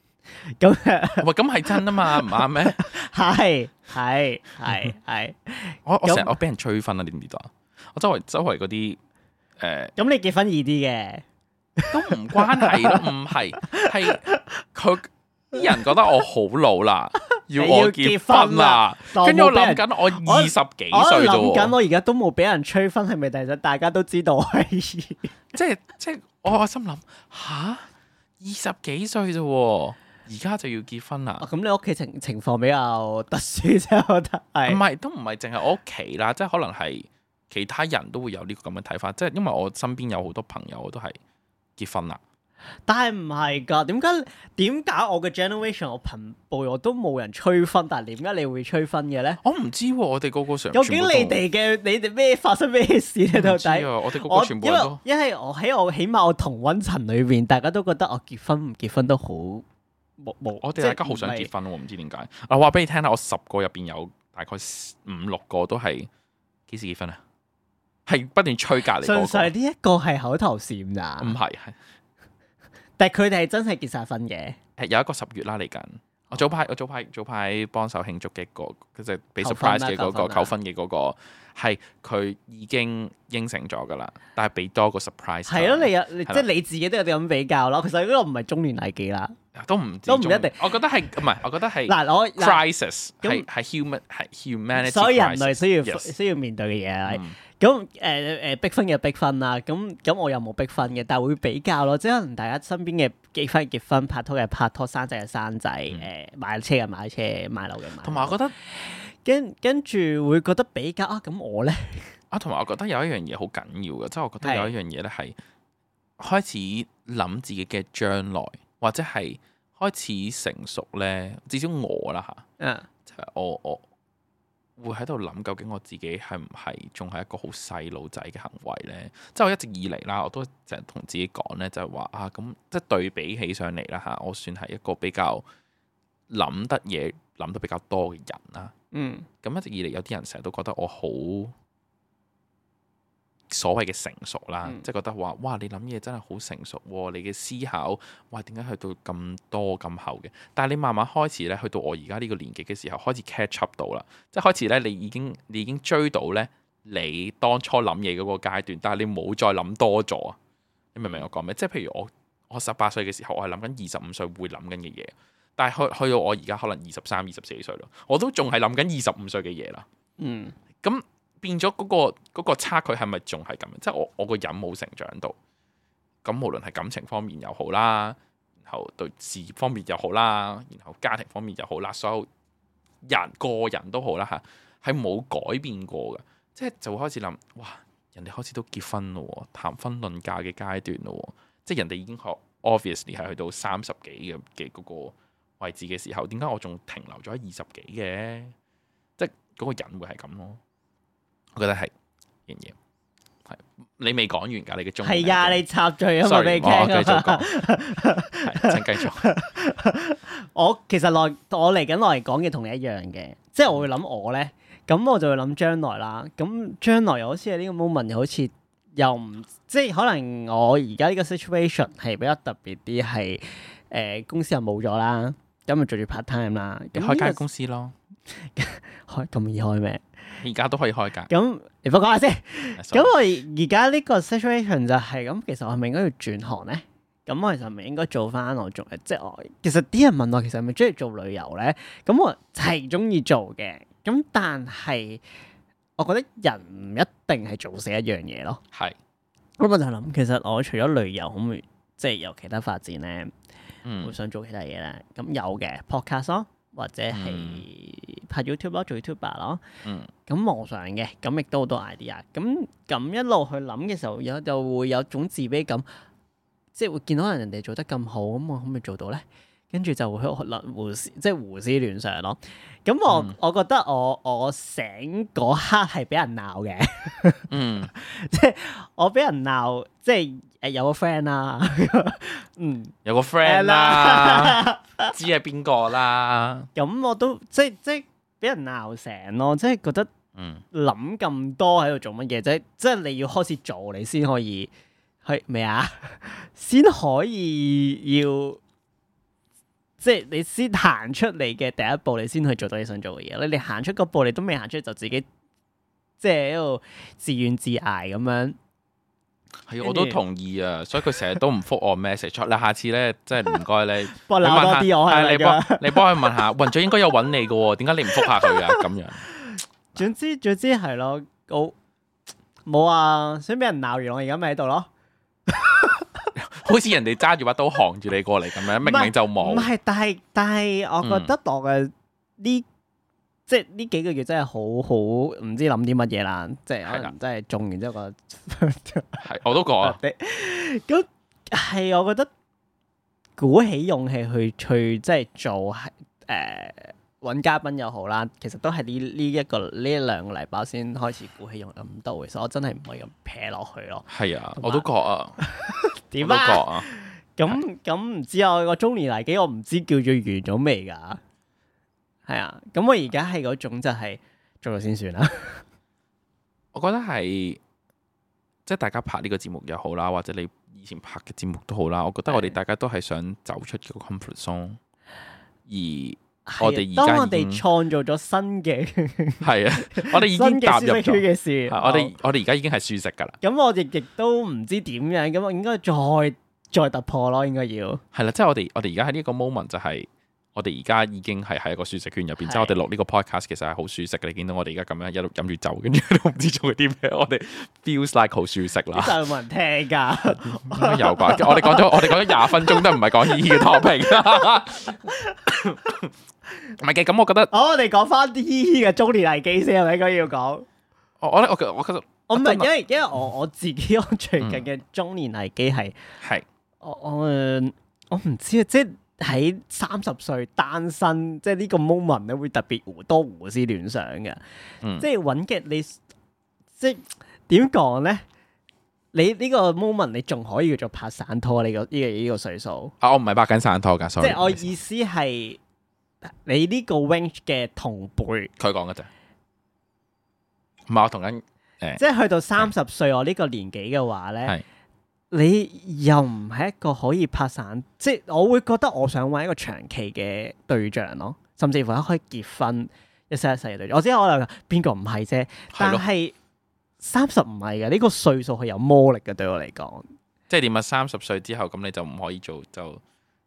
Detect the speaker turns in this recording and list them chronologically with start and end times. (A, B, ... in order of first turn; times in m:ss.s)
0:00.4-0:06.4 A
0:01.2-0:02.9 B
0:05.8-0:09.0 B
0:09.6-0:09.9 B
0:10.0-0:11.2 A
0:11.8-0:13.0 A
0:11.9-0:21.7 B
0:13.6-0:14.4 A
0:17.5-0:25.3 A
0:25.5-0:27.9 B
0:28.4-0:31.4 B
0:31.4-0:34.8 A
0:34.6-0:41.2 B
0:41.8-0:42.2 B
0:42.9-0:49.4 A
0:49.4-0:51.4 B
0:50.7-0:59.6 A
0:53.3-0:55.0 B
1:00.2-1:01.5 A
1:00.6-1:06.1 B
1:06.7-1:07.2 B
1:08.0-1:09.5 B
1:09.0-1:11.3 A
1:11.2-1:11.8 B
1:13.0-1:14.6 A
1:14.8-1:26.4 B
1:19.4-1:20.5 A
1:25.5-1:29.3 A
1:29.5-1:36.1 B
1:30.1-1:30.6 A
1:31.9-1:32.6 A
1:34.7-1:52.2 A
1:37.0-1:37.4 B
1:48.0-1:48.5 B
1:52.3-1:55.4 B
1:54.4-1:54.7 A
1:56.2-2:02.4 B
2:02.6-2:02.9 A
2:03.0-2:03.8 B
2:04.8-2:15.4 B
2:16.3-2:18.7 B
2:18.9-2:19.3 A
2:19.4-2:21.5 B
2:23.5-2:40.4 B
2:40.9-2:49.8 B
2:50.2-2:50.6 A
2:50.8-2:55.4 B
2:56.2-3:02.3 B
3:03.0-3:18.5 B
3:19.2-3:20.6 B
3:21.5-3:21.9 B
3:22.5-3:22.7 B
3:23.5-3:25.6 B
3:25.0-3:47.4 A
3:26.2-3:27.6 B
3:28.3-3:29.3 B
3:46.9-3:47.9 B
3:48.3-3:50.0 A
3:50.4-3:51.3 B
3:51.3-4:05.2 A
3:52.8-3:53.1 B
4:06.0-4:08.6 A
4:09.6-4:13.3 A
4:13.8-4:14.1 B
4:14.0-4:19.6 A
4:17.1-4:17.6 B
4:19.8-4:20.1 B
4:20.3-4:25.8 A
4:26.7-4:45.1 A
4:33.1-4:33.4 B
4:37.5-4:37.9 B
4:43.0-4:46.7 B
4:46.7-4:50.1 A
4:50.4-4:50.6 B
4:50.7-4:54.7 A
4:55.2-4:58.6 A
5:00.0-5:05.2 A
5:06.2-5:08.6 A
5:09.7-5:19.3 B
5:09.8-5:10.2 A
5:14.1-5:16.4 A
5:18.1-5:18.8 A
5:19.4-5:21.7 A
5:22.6-5:24.9 A
5:25.5-5:26.3 A
5:26.4-5:29.7 B
5:28.8-5:32.6 A
5:31.0-5:31.3 B
5:33.5-5:39.2 A
5:36.8-5:37.1 B
5:39.2-5:40.0 B
5:39.8-5:42.3 A
5:43.4-5:54.9 A
5:54.1-5:55.4 B
5:55.4-6:01.2 A
5:56.2-5:56.9 B
6:02.2-6:05.6 A
6:06.7-6:07.6 B
6:08.6-6:14.8 B
6:12.3-6:12.6 A
6:15.7-6:17.6 B
6:16.4-6:22.1 A
6:19.4-6:23.4 B
6:23.4-6:28.0 A
6:28.1-6:39.2 B
6:32.4-6:32.9 A
6:38.9-6:45.9 A
6:40.6-6:46.1 B
6:46.7-6:47.5 B
6:47.5-6:50.6 A
6:51.2-6:52.7 B
6:52.3-6:56.0 A
6:54.4-6:54.6 B
6:56.2-6:56.5 B
6:56.8-7:04.4 A
7:04.8-7:05.1 B
7:05.0-7:06.0 A
7:06.8-7:08.2 A
7:09.1-7:12.9 A
7:13.0-7:14.7 B
7:14.2-7:15.6 A
7:16.2-7:18.5 A
7:18.6-7:19.1 B
7:20.9-7:22.0 B
7:22.0-7:24.5 A
7:25.3-7:36.3 A
7:35.7-7:36.0 B
7:37.0-7:40.1 A
7:40.5-7:43.0 B